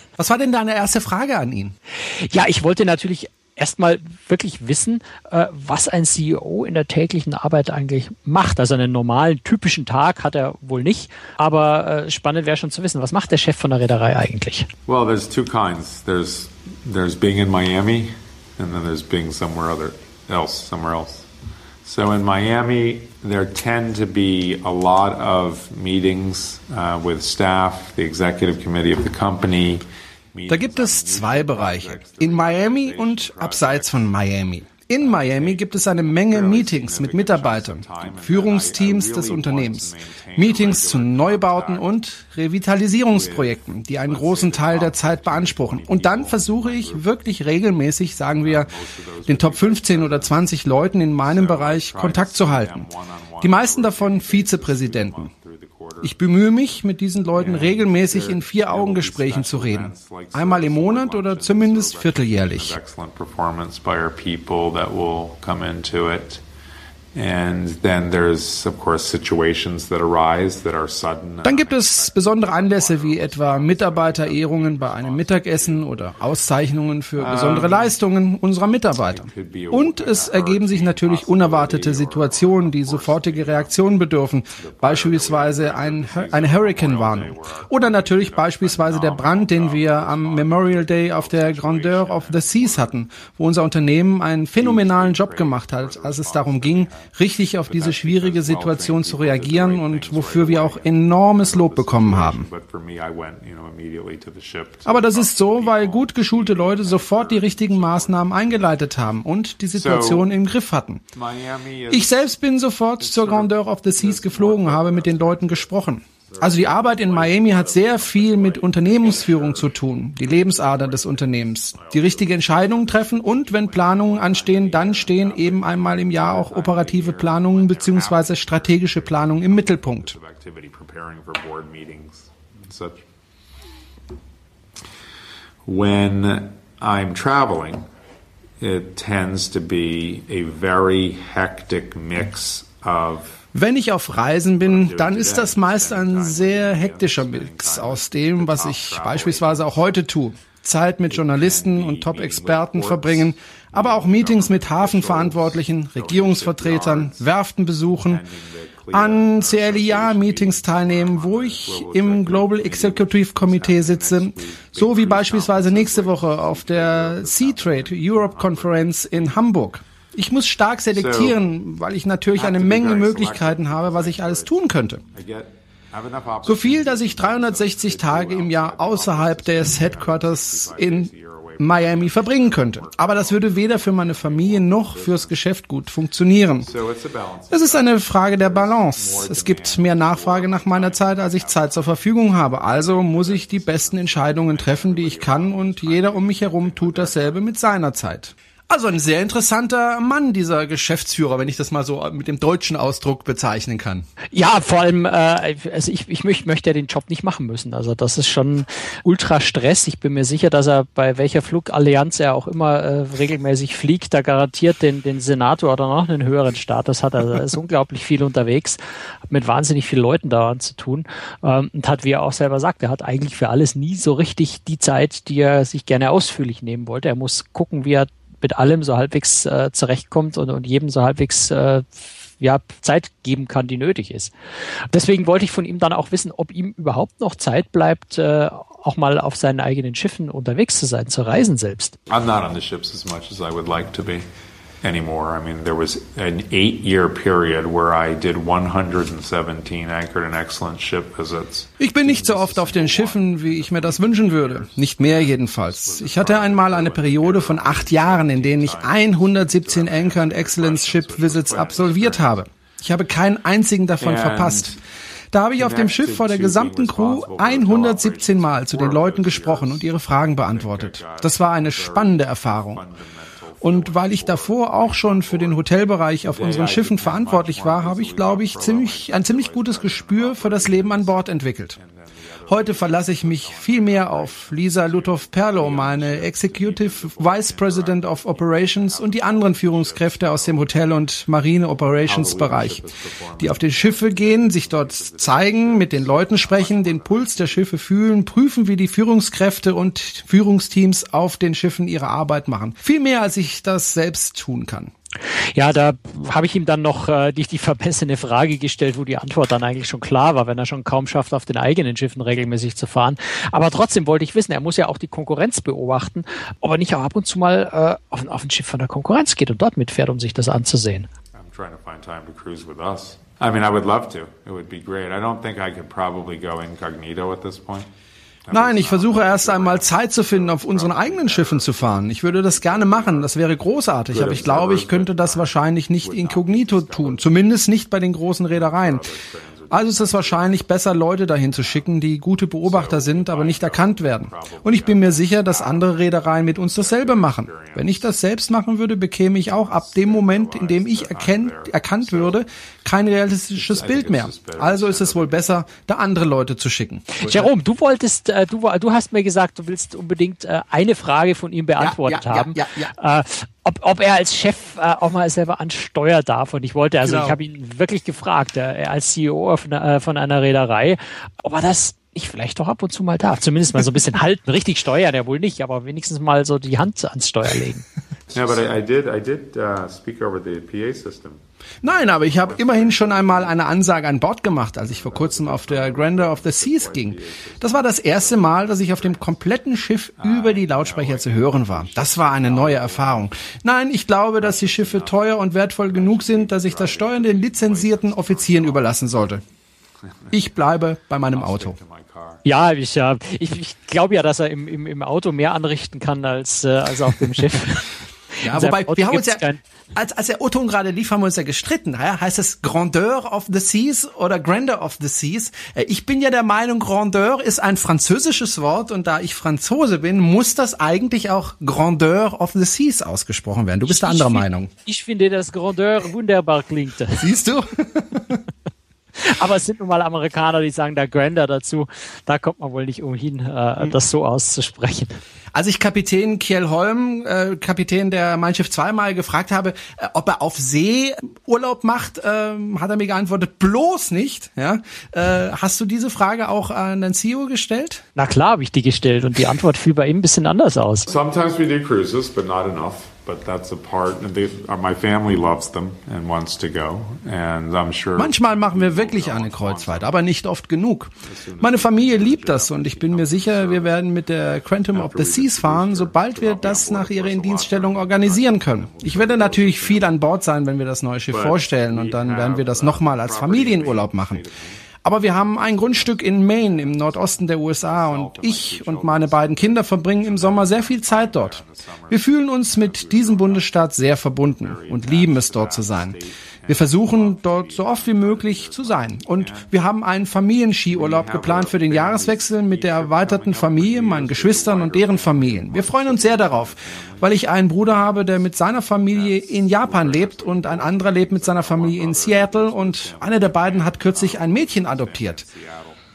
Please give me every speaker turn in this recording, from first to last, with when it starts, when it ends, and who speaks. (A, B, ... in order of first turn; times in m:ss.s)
0:00.2-0:01.7 A
0:02.0-0:14.7 B
0:14.9-0:21.2 C
0:21.8-0:29.8 C
0:30.3-0:34.1 C
0:30.5-0:48.7 A
0:34.7-0:42.0 C
0:43.1-0:47.0 C
0:48.4-0:50.5 C
0:49.2-0:52.9 A
0:51.2-0:56.2 C
0:53.4-0:55.3 A
0:56.0-1:02.8 A
0:57.3-1:06.4 C
1:07.1-1:16.2 C
1:11.4-1:42.5 A
1:17.2-1:18.0 C
1:19.1-1:23.9 C
1:24.6-1:33.0 C
1:34.6-1:37.1 C
1:37.7-1:48.7 C
1:44.8-1:51.0 A
1:49.7-1:50.3 C
1:51.1-1:52.2 C
1:51.9-2:10.1 A
1:53.0-1:55.7 C
1:56.2-2:13.0 C
2:15.6-2:17.8 C
2:18.6-2:23.4 C
2:23.5-2:38.2 A
2:24.6-2:29.8 C
2:31.1-2:37.3 C
2:38.0-2:49.4 C
2:38.9-2:55.0 A
2:50.9-2:51.4 C
2:52.3-2:54.5 C
2:55.1-3:05.4 C
2:56.4-3:06.7 A
3:06.6-3:17.4 C
3:07.5-3:24.0 A
3:24.3-3:54.3 B
3:54.9-4:02.0 B
4:02.1-4:04.2 C
4:04.8-4:22.4 C
4:11.8-4:24.8 A
4:24.0-4:24.8 C
4:25.3-4:32.8 A
4:25.6-4:35.6 C
4:33.6-4:41.8 A
4:36.2-4:41.2 C
4:41.8-4:50.7 C
4:42.5-4:52.8 A
4:52.0-4:57.7 C
4:53.4-5:04.9 A
5:05.5-5:21.1 B
5:21.4-5:27.9 C
5:28.4-5:33.3 C
5:28.5-5:39.1 A
5:34.1-5:35.5 C
5:36.0-5:37.3 C
5:38.5-5:40.6 C
5:39.7-5:57.5 A
5:41.5-5:41.9 C
5:42.6-5:45.9 C
5:46.5-5:48.1 C
5:49.5-5:52.4 C
5:53.6-5:55.6 C
5:57.1-6:17.8 B
6:01.8-6:02.9 A
6:07.0-6:07.4 A
6:18.3-6:21.4 C
6:21.8-6:39.4 A
6:21.9-6:23.6 C
6:24.8-6:29.3 C
6:30.2-6:33.3 C
6:34.4-6:35.2 C
6:35.8-6:39.0 C
6:40.3-6:41.8 A
6:41.3-6:42.4 C
6:42.4-6:49.6 B
6:48.4-6:49.4 A
6:49.9-7:04.7 A
7:03.8-7:07.3 B
7:07.2-7:08.4 A
7:09.2-7:15.2 B
7:15.5-7:28.0 A
7:28.2-7:31.1 B
7:31.0-7:40.1 C
7:38.2-7:54.4 A
7:41.2-7:43.9 C
7:44.9-7:50.1 C
7:51.3-7:54.8 C
7:55.0-8:06.2 A
7:55.5-8:03.7 C
8:04.5-8:09.7 C
8:06.7-8:25.4 A
8:10.9-8:18.2 C
8:19.1-8:26.0 C